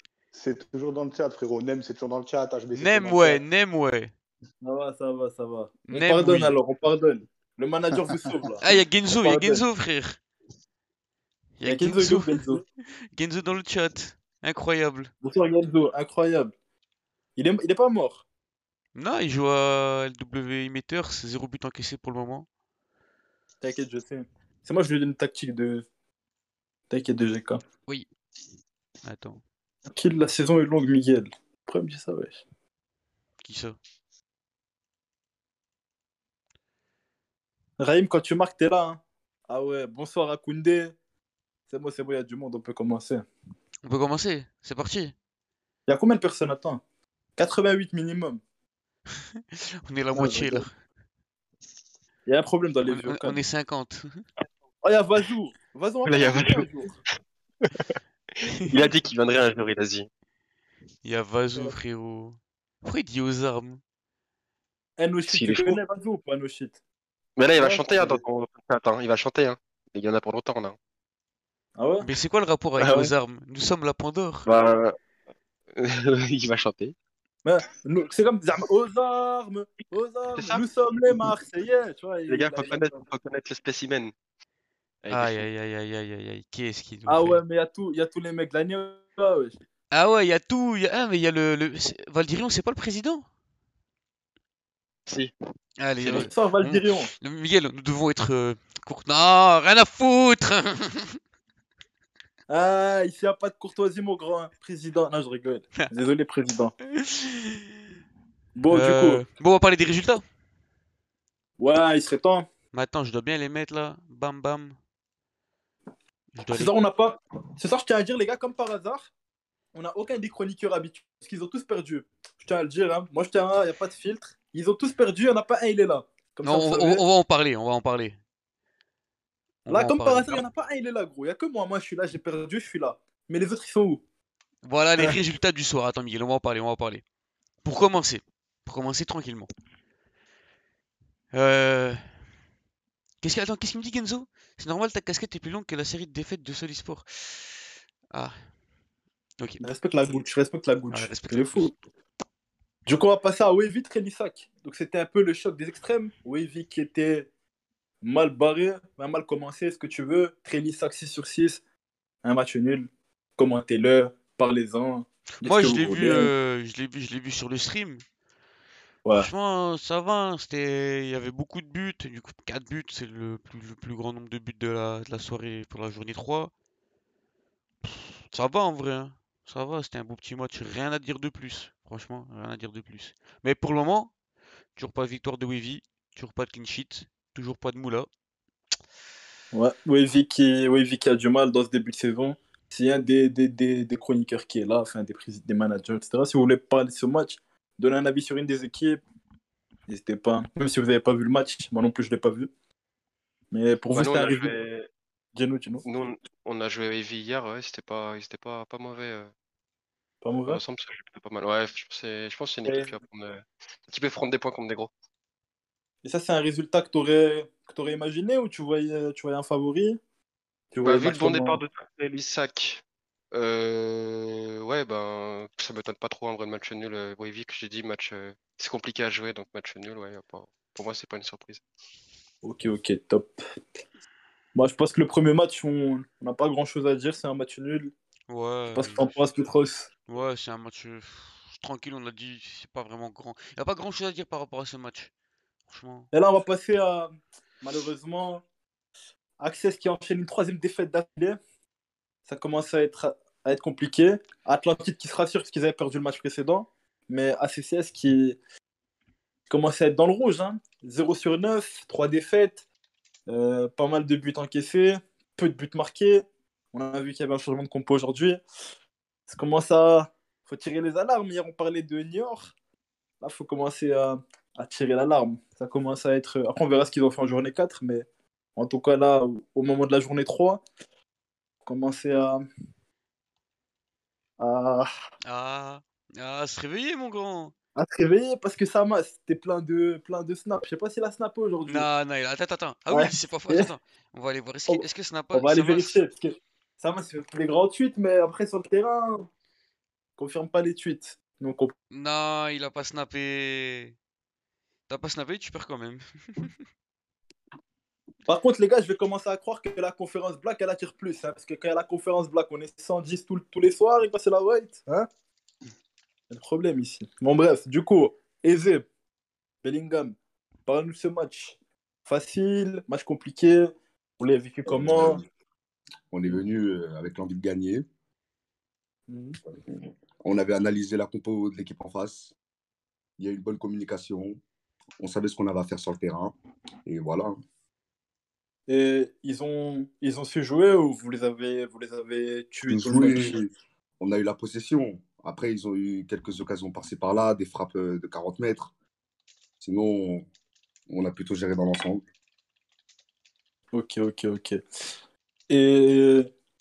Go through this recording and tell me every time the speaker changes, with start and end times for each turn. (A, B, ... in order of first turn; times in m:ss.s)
0:00.3-0:03.4 A
0:02.7-0:04.1 B
0:04.6-0:09.6 C
0:05.9-0:06.6 B
0:08.6-0:10.2 B
0:11.6-0:12.6 B
0:11.6-0:12.6 C
0:13.1-0:15.1 B
0:15.2-0:16.5 C
0:17.4-0:18.2 C
0:18.9-0:22.5 B
0:23.6-0:25.8 C
0:26.9-0:27.6 C
0:29.0-0:29.4 B
0:29.9-0:32.4 C
0:33.4-0:33.8 B
0:37.8-0:40.9 C
0:41.7-0:43.3 C
0:43.8-0:45.1 B
0:45.9-0:46.8 C
0:47.4-0:48.4 C
0:49.3-0:50.7 B
0:50.1-0:50.6 C
0:52.2-0:53.4 C
0:52.8-0:54.2 B
0:54.8-0:56.9 C
0:56.0-0:56.7 D
0:58.5-0:58.9 B
0:58.7-1:00.1 D
1:01.0-1:03.8 B
1:05.0-1:06.8 C
1:05.3-1:05.8 D
1:07.4-1:10.8 D
1:07.6-1:08.2 C
1:11.8-1:12.1 C
1:12.0-1:14.5 B
1:14.4-1:15.0 D
1:15.8-1:16.9 D
1:17.4-1:23.0 C
1:20.4-1:20.6 D
1:22.3-1:24.1 D
1:25.0-1:25.5 D
1:25.1-1:27.4 B
1:27.0-1:29.6 C
1:29.9-1:33.2 B
1:35.8-1:41.2 B
1:36.0-1:37.1 C
1:42.5-1:46.7 C
1:46.9-1:47.7 B
1:48.5-1:49.2 C
1:48.7-1:50.2 B
1:51.6-1:52.4 C
1:52.7-1:54.8 B
1:56.3-1:56.8 B
1:56.5-1:59.1 C
1:59.7-2:07.0 C
2:06.4-2:08.2 B
2:09.6-2:10.4 B
2:09.7-2:14.0 C
2:14.6-2:17.0 B
2:17.6-2:19.5 B
2:21.3-2:22.0 B
2:23.2-2:28.3 B
2:29.4-2:29.7 B
2:29.6-2:31.7 C
2:30.9-2:31.7 B
2:32.8-2:37.3 C
2:38.0-2:41.6 C
2:42.2-2:46.3 C
2:45.4-2:48.0 B
2:49.0-2:49.3 C
2:49.1-2:56.5 B
2:57.8-3:04.1 B
3:04.8-3:08.1 B
3:09.5-3:19.0 C
3:19.9-3:22.5 C
3:23.5-3:24.5 C
3:23.9-3:24.9 D
3:25.3-3:25.8 C
3:25.8-3:29.3 D
3:30.2-3:30.6 C
3:30.5-3:34.9 D
3:32.6-3:32.9 C
3:36.0-3:40.0 C
3:40.7-3:41.6 C
3:40.8-3:51.6 D
3:52.4-3:53.4 C
3:54.5-3:57.9 C
3:58.3-3:59.2 B
3:58.7-3:59.9 C
4:00.1-4:05.1 B
4:05.7-4:06.1 B
4:06.1-4:08.4 C
4:09.4-4:11.4 C
4:12.2-4:18.4 C
4:19.5-4:22.6 C
4:23.3-4:28.4 C
4:29.3-4:32.5 C
4:33.2-4:38.0 C
4:38.6-4:40.6 C
4:41.6-4:42.4 C
4:44.4-4:44.9 C
4:45.2-4:47.5 B
4:47.8-4:51.9 C
4:51.6-4:56.0 B
4:52.9-4:53.7 C
4:54.7-4:59.3 C
5:00.2-5:01.7 C
5:01.9-5:04.0 B
5:04.9-5:06.5 B
5:08.3-5:15.1 C
5:16.3-5:18.8 C
5:19.6-5:25.2 C
5:24.6-5:25.2 E
5:26.1-5:27.8 E
5:29.1-5:29.4 C
5:29.7-5:32.3 E
5:33.2-5:34.4 E
5:35.0-5:36.3 E
5:36.8-5:37.4 E
5:38.7-5:43.4 C
5:42.7-5:48.7 E
5:49.6-5:50.3 E
5:50.9-5:52.0 E
5:53.7-5:54.6 C
5:55.5-5:56.3 C